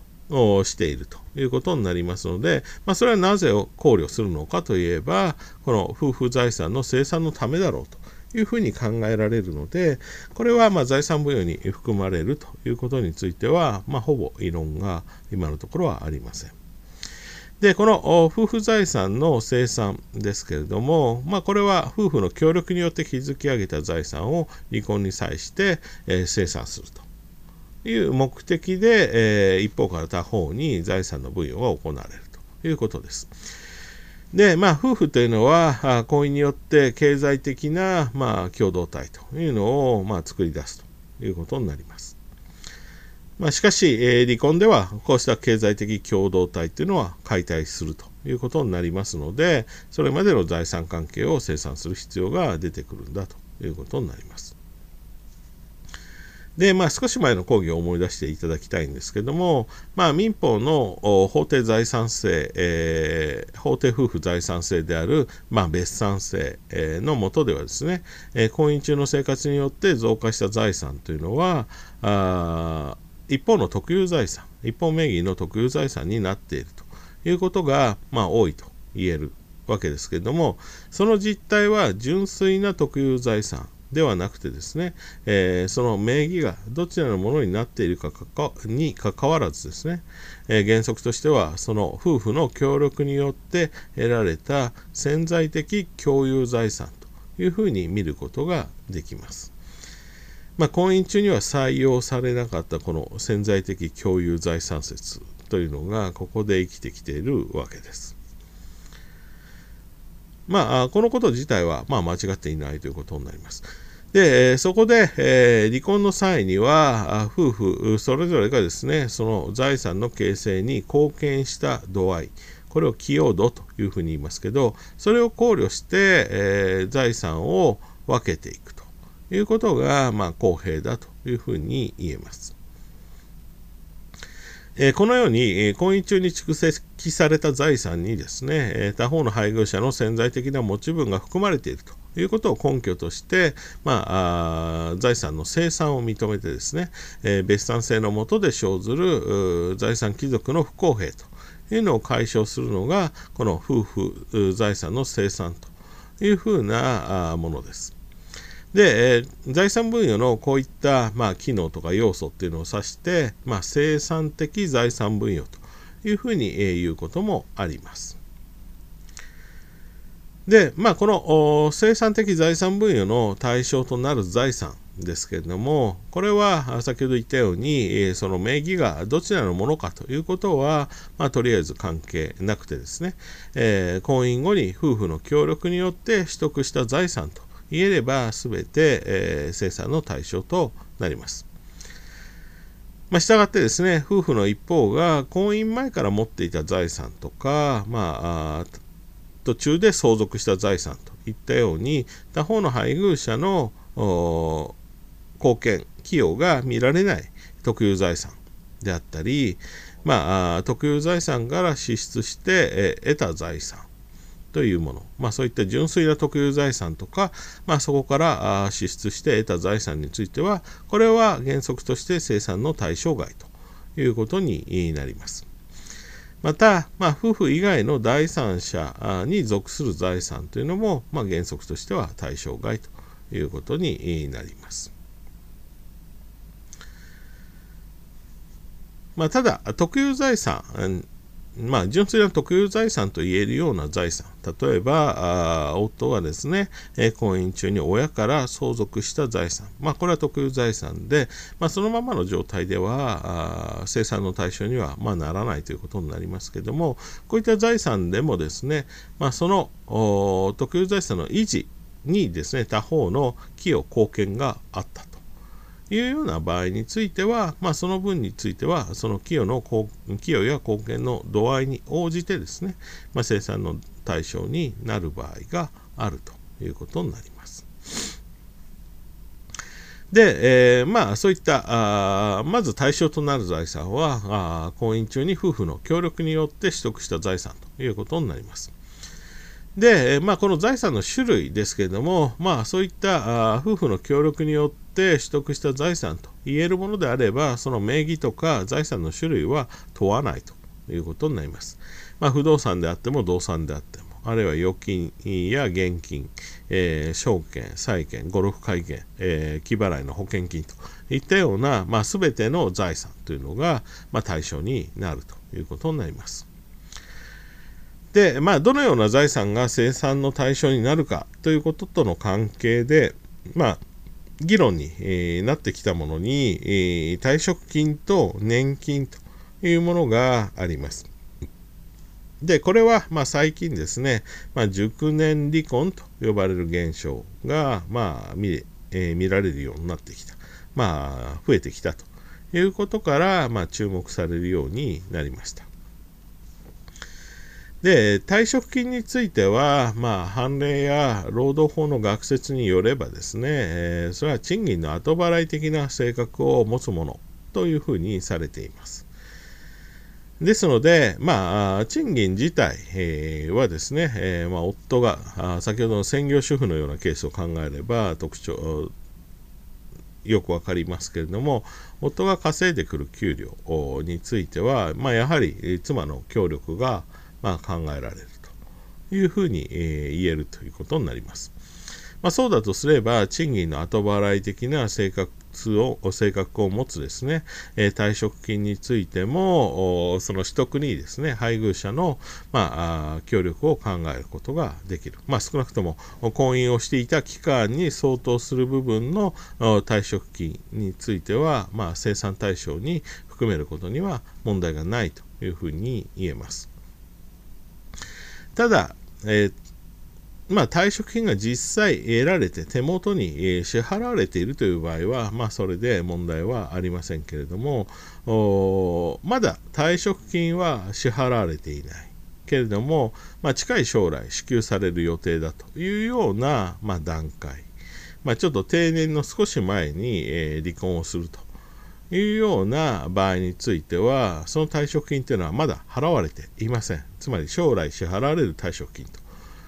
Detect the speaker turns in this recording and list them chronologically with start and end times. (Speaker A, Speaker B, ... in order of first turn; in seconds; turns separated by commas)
Speaker A: 0.3-16.6, Speaker A: 17.6-27.1, Speaker A: 27.8-33.3, Speaker A: 34.3-42.2, Speaker A: 43.4-54.5, Speaker A: 56.6-99.5, Speaker A: 100.6-108.2, Speaker A: 110.5-132.5, Speaker A: 134.8-157.9, Speaker A: 158.7-168.2, Speaker A: 170.5-191.5, Speaker A: 193.1-198.8, Speaker A: 199.4-204.8, Speaker A: 205.4-213.9, Speaker A: 214.5-225.5, Speaker A: 226.4-234.9, Speaker A: 239.2-265.2, Speaker A: 265.9-278.1, Speaker A: 280.1-288.7, Speaker A: 289.8-316.5, Speaker A: 318.1-323.8, Speaker A: 324.4-331.1, Speaker A: 332.4-345.7, Speaker A: 347.8-359.1, Speaker A: 360.4-368.9, Speaker A: 370.2-378.5, Speaker A: 379.1-381.5, Speaker A: 382.2-406.7, Speaker A: 408.6-409.6, Speaker A: 410.5-427.7, Speaker A: 428.2-431.5, Speaker A: 432.1-439.2